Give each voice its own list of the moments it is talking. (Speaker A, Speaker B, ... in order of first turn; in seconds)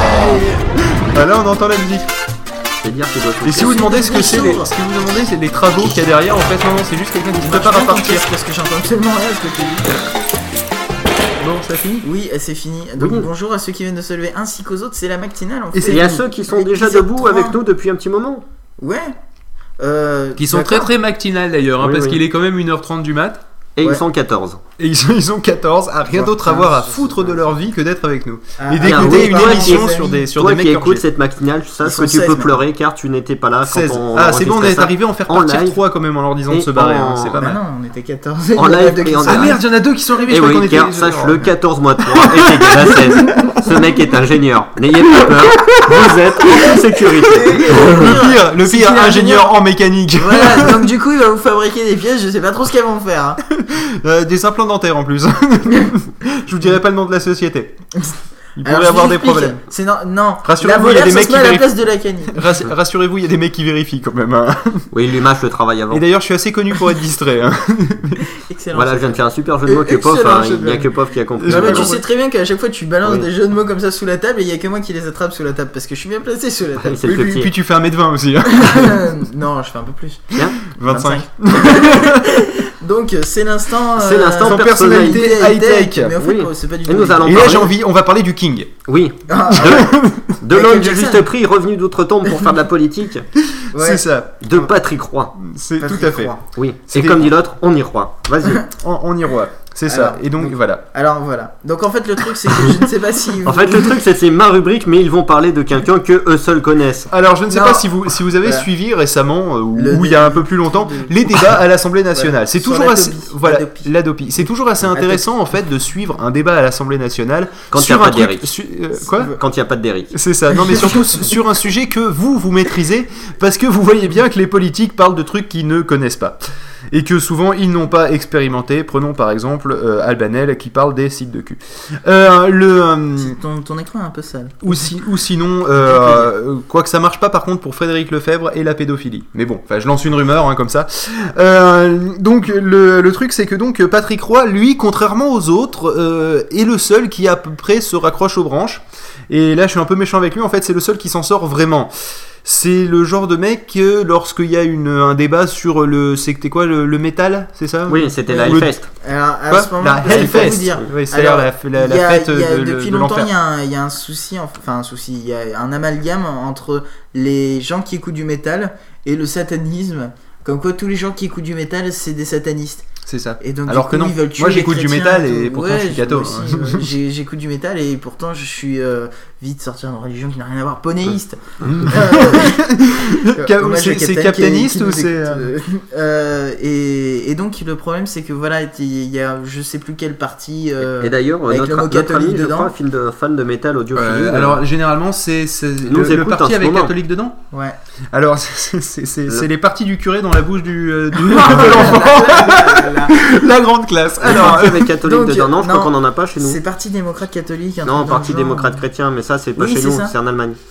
Speaker A: 0.1-0.5, 3.5-4.7, 7.4-10.1, 12.0-17.6, 18.8-19.1, 19.8-20.9, 26.1-27.6, 28.6-30.2, 31.8-32.6, 37.4-39.6, 47.4-49.5, 50.2-53.4, 58.0-62.5, 68.5-70.9, 71.5-77.0, 78.5-87.6, 89.3-89.9, 90.5-91.3, 93.7-94.0, 95.8-96.4, 99.9-100.2, 100.9-103.9, 107.5-108.7, 109.7-111.1, 112.1-113.9, 114.9-115.3, 119.0-119.3, 120.7-121.0, 133.2-134.9, 135.8-136.3, 158.2-172.8, 173.4-192.7, 197.5-197.8, 201.3-203.2, 204.3-208.8, 209.6-210.1
Speaker B: 1.1-2.1, 3.4-8.2, 11.4-12.0, 15.7-16.1, 20.4-23.4, 24.8-31.0, 33.6-37.6, 39.2-41.4, 42.6-42.9, 47.4-50.9, 53.5-57.7, 58.5-59.6, 60.4-61.7, 62.3-64.9, 65.9-68.2, 71.4-72.0, 77.1-79.1, 80.3-82.3, 84.4-86.1, 87.2-88.7, 89.6-90.3, 93.7-94.7, 95.3-96.3, 96.9-97.3, 98.7-100.9, 107.1-119.4, 120.1-126.4, 126.9-133.4, 134.6-151.9, 152.4-158.7, 159.5-163.3, 173.1-176.9, 181.6-185.5, 193.9-197.4, 198.1-204.9
Speaker C: 2.8-3.8, 13.0-13.3, 15.9-18.4, 21.8-22.2, 23.8-24.6, 28.8-35.8, 36.5-37.4, 38.5-39.6, 40.3-48.2, 64.9-66.0, 68.7-71.9, 76.8-77.5, 84.0-85.2, 86.2-87.7, 88.9-93.2, 94.4-95.3, 96.5-98.7, 103.4-107.1, 117.7-118.5, 119.4-120.1, 157.9-158.9, 160.2-160.9, 190.8-194.6, 195.8-196.9, 204.2-206.6, 207.8-210.6